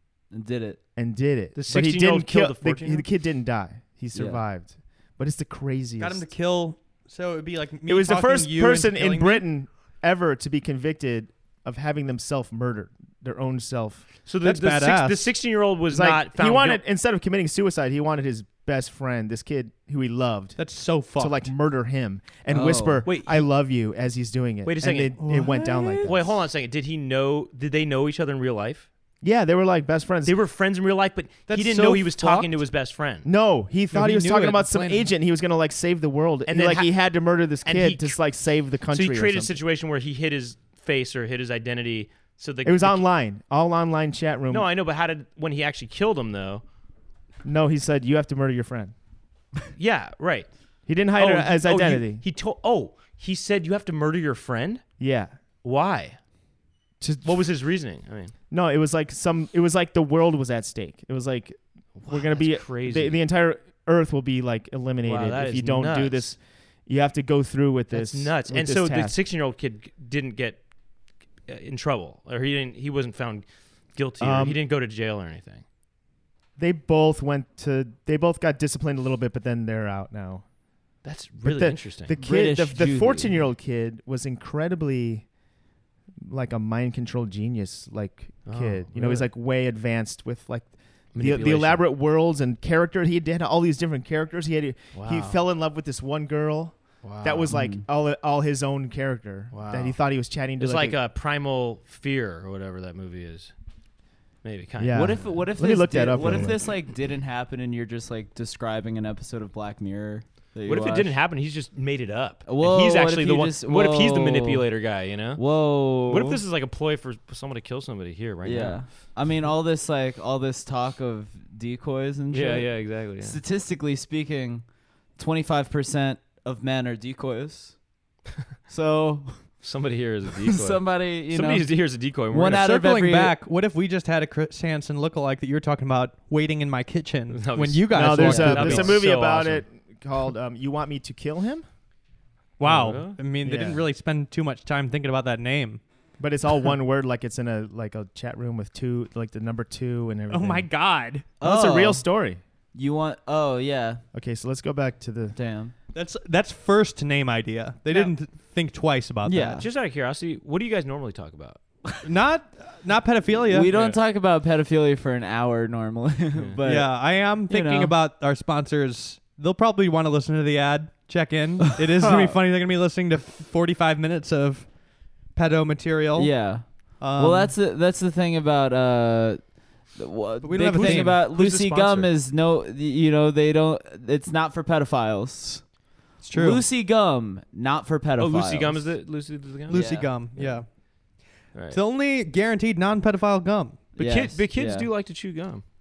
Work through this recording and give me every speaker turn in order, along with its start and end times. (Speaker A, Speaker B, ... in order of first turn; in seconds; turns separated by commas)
Speaker A: 0.3-0.8, Speaker B: 0.9-6.2, Speaker C: 1.5-3.0, Speaker A: 4.1-4.4, Speaker D: 6.0-9.4, Speaker B: 7.9-14.1, Speaker C: 14.2-16.8, Speaker D: 14.4-15.3, Speaker B: 15.9-26.4, Speaker D: 20.6-21.4, Speaker A: 22.5-23.0, Speaker C: 23.0-23.5, Speaker C: 24.6-25.1, Speaker D: 25.2-25.6, Speaker A: 25.3-26.1, Speaker C: 26.0-28.9, Speaker B: 29.2-30.3, Speaker C: 30.2-33.3, Speaker D: 31.5-32.5, Speaker B: 33.2-39.6, Speaker D: 33.9-35.1, Speaker C: 36.5-37.0, Speaker C: 37.6-38.2, Speaker C: 38.9-43.0, Speaker B: 42.6-44.7, Speaker C: 44.5-46.6, Speaker B: 47.4-48.9, Speaker C: 49.8-50.5, Speaker B: 50.9-52.2, Speaker C: 51.1-54.8, Speaker B: 55.0-55.3, Speaker C: 55.6-56.2, Speaker B: 57.0-57.3, Speaker C: 57.2-58.3, Speaker B: 58.5-69.2, Speaker C: 62.0-63.2, Speaker C: 65.0-66.3, Speaker C: 67.9-70.6, Speaker C: 71.5-75.6, Speaker B: 74.2-74.6, Speaker B: 76.6-80.4, Speaker C: 81.0-82.1, Speaker B: 81.4-85.3, Speaker A: 82.2-83.3, Speaker B: 86.2-101.0, Speaker C: 88.5-89.3, Speaker C: 91.1-91.8, Speaker C: 94.9-95.4, Speaker C: 97.0-97.5, Speaker A: 97.5-97.8, Speaker C: 99.5-100.0, Speaker C: 100.6-103.5, Speaker C: 104.4-105.3, Speaker B: 104.8-106.6, Speaker A: 104.9-111.1, Speaker C: 110.7-115.4, Speaker A: 112.5-114.6, Speaker A: 115.3-116.4, Speaker C: 115.9-118.8, Speaker A: 118.4-127.8, Speaker C: 122.3-123.4, Speaker A: 128.7-129.5, Speaker C: 129.6-132.7, Speaker A: 130.5-131.7, Speaker A: 132.3-133.3, Speaker D: 132.5-139.0, Speaker C: 137.3-139.6, Speaker B: 137.9-141.6, Speaker A: 138.2-138.6, Speaker D: 142.6-145.8, Speaker C: 142.6-143.2, Speaker B: 143.4-143.8, Speaker B: 146.2-150.7, Speaker D: 150.3-151.3, Speaker A: 151.4-152.0, Speaker B: 151.4-152.4, Speaker A: 152.7-154.0, Speaker B: 154.1-155.3, Speaker A: 155.3-155.7, Speaker D: 155.9-159.6, Speaker A: 159.2-159.7, Speaker C: 159.6-161.6, Speaker D: 162.0-163.7, Speaker A: 163.4-167.9, Speaker C: 163.7-164.0, Speaker C: 166.3-166.6, Speaker D: 166.6-174.7, Speaker A: 171.9-172.4, Speaker D: 175.3-177.5, Speaker A: 176.2-185.7, Speaker D: 180.4-181.2, Speaker C: 180.8-182.1, Speaker D: 186.2-186.6, Speaker A: 186.3-188.9, Speaker C: 188.2-189.9, Speaker D: 189.7-190.7, Speaker A: 189.7-190.6, Speaker C: 191.5-191.8, Speaker D: 191.7-193.8, Speaker A: 193.9-194.9, Speaker C: 194.0-195.6